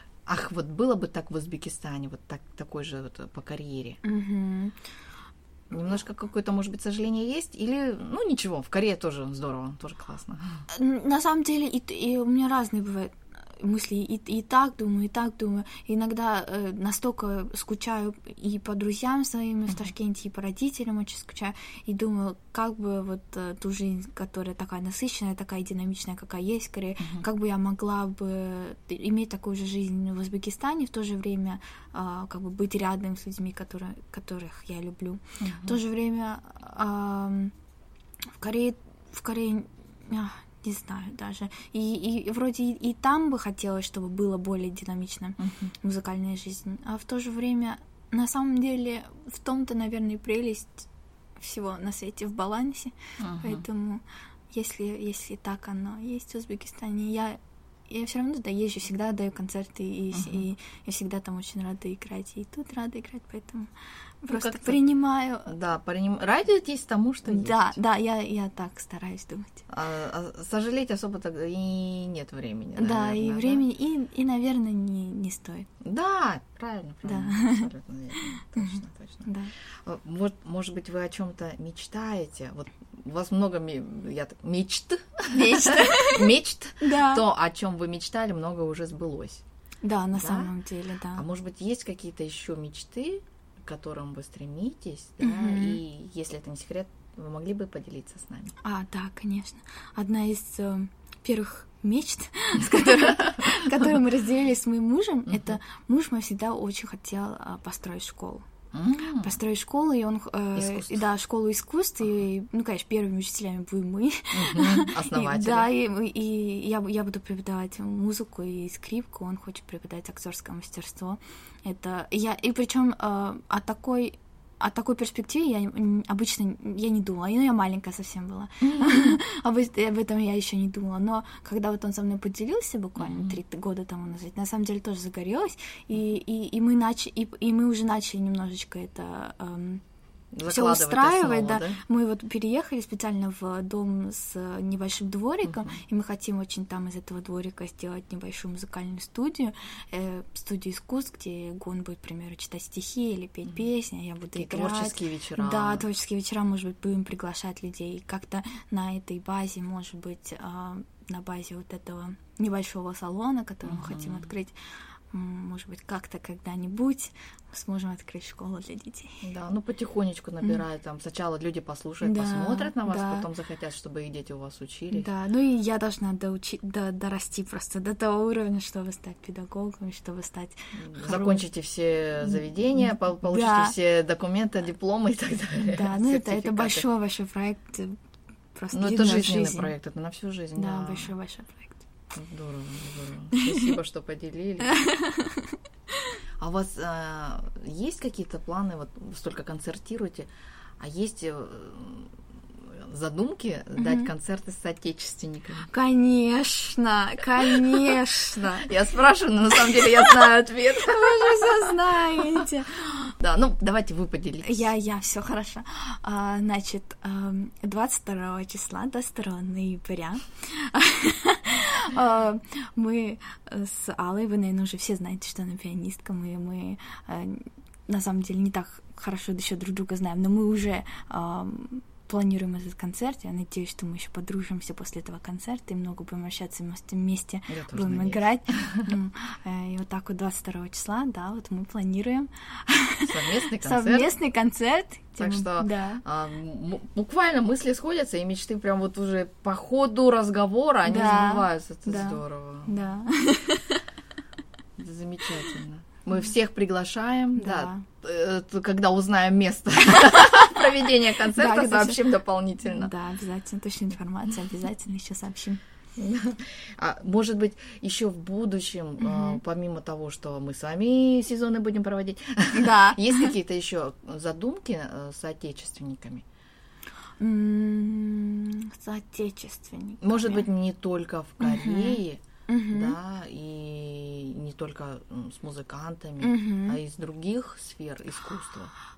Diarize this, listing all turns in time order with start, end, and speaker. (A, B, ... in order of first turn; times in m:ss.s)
0:00.2-0:04.0 A
0:04.0-0:04.7 B
0:05.7-0:10.6 A
0:10.7-0:37.5 B
0:35.4-0:35.8 A
0:38.4-0:50.9 B
0:45.4-0:45.7 A
0:51.4-1:03.7 B
0:53.2-0:53.6 A
1:00.1-1:00.4 A
1:04.2-1:05.5 B
1:04.3-1:04.8 A
1:05.4-1:07.8 A
1:07.2-1:09.6 B
1:09.7-1:13.6 A
1:12.8-1:15.7 B
1:15.8-1:19.3 A
1:17.0-1:19.5 B
1:19.8-1:29.4 A
1:25.3-1:27.2 B
1:29.8-1:31.2 B
1:30.2-1:30.5 A
1:31.1-1:38.5 A
1:35.2-1:35.8 B
1:38.6-1:48.4 B
1:45.3-1:45.6 A
1:48.7-1:49.3 A
1:49.1-2:19.8 B
1:50.5-1:51.0 A
1:54.3-1:55.7 A
2:08.6-2:09.2 A
2:13.0-2:13.4 A
2:20.3-2:21.8 A
2:20.4-2:44.5 B
2:25.4-2:25.7 A
2:34.3-2:35.8 A
2:43.6-2:44.3 A
2:45.1-2:49.2 B
2:49.2-2:55.1 A
2:52.0-2:53.3 B
2:54.9-3:01.4 B
3:00.7-3:06.8 A
3:02.2-3:03.7 B
3:05.6-3:08.0 B
3:08.5-3:09.7 B
3:08.7-3:11.1 A
3:10.6-3:11.8 B
3:12.1-3:14.8 A
3:13.3-3:13.7 B
3:14.6-3:16.1 B
3:16.4-3:20.3 A
3:20.8-3:25.7 A
3:23.8-3:24.1 B
3:25.7-3:28.7 B
3:27.4-3:32.5 A
3:29.5-3:33.1 B
3:33.2-3:34.7 A
3:34.4-4:06.0 B
3:57.5-3:58.9 A
4:03.0-4:04.1 A
4:05.2-4:12.7 A
4:10.8-4:13.8 B
4:14.8-4:22.9 A
4:17.4-4:17.9 B
4:21.3-4:25.6 B
4:26.0-4:36.2 A
4:29.0-4:29.4 B
4:32.5-4:33.3 B
4:37.2-4:40.4 B
4:40.0-4:42.2 A
4:41.4-4:43.0 B
4:42.7-4:48.7 A
4:46.2-4:46.8 B